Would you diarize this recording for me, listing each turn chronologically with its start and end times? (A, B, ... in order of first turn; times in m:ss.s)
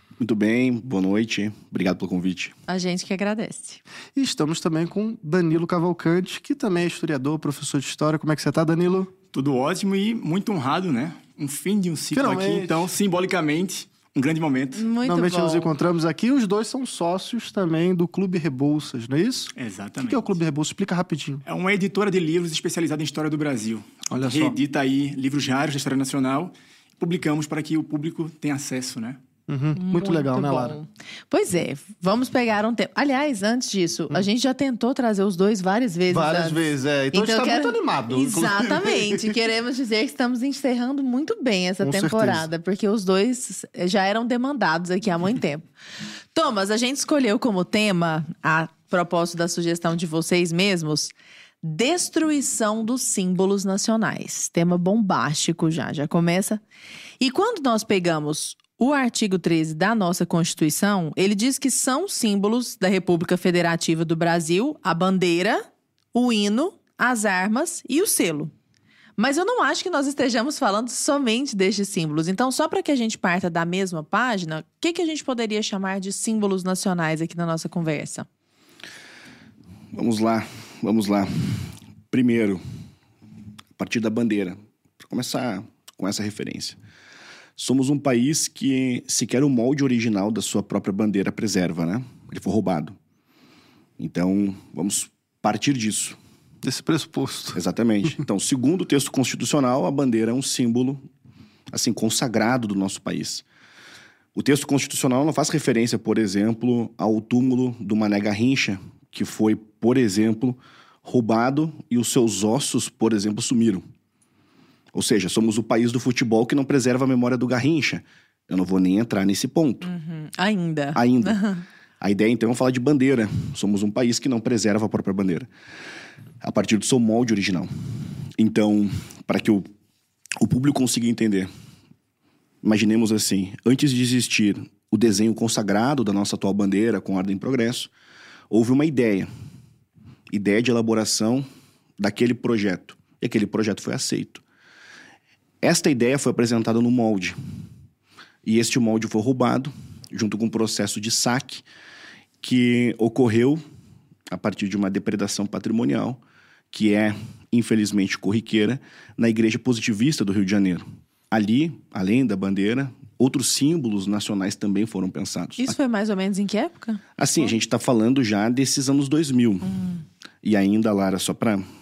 0:00.2-0:02.5 A
0:02.7-0:03.8 B
0:04.2-0:09.1 C
0:09.3-0:14.8 D
0:12.1-0:12.8 C
0:14.8-0:15.7 B
0:15.0-0:21.4 C
0:19.6-0:20.3 D
0:21.4-0:29.2 D
0:24.1-0:24.5 C
0:29.5-0:30.8 C
0:29.7-0:36.6 B
0:36.1-0:39.2 C
0:37.1-0:45.6 B
0:41.8-0:42.4 C
0:46.3-0:56.6 B
0:57.2-1:08.5 B
1:09.2-1:18.3 B
1:19.9-1:22.6 A
1:23.8-1:26.8 A
1:27.6-1:33.0 A
1:34.0-1:36.2 A
1:36.6-1:37.6 C
1:37.5-1:41.0 A
1:41.7-1:43.4 A
1:44.3-1:53.8 A
1:54.9-1:59.9 A
1:59.8-2:01.6 B
2:00.9-2:01.4 A
2:02.0-2:05.5 A
2:06.4-2:07.7 A
2:08.4-2:09.6 A
2:10.4-2:11.5 A
2:12.6-2:17.9 A
2:18.5-2:19.3 A
2:20.3-2:21.4 A
2:22.0-2:24.4 A
2:25.6-2:27.3 A
2:28.4-2:31.6 A
2:32.4-2:33.6 A
2:34.3-2:36.2 A
2:36.7-2:45.8 A
2:45.6-2:47.0 B
2:47.2-2:49.8 A
2:50.4-2:51.6 A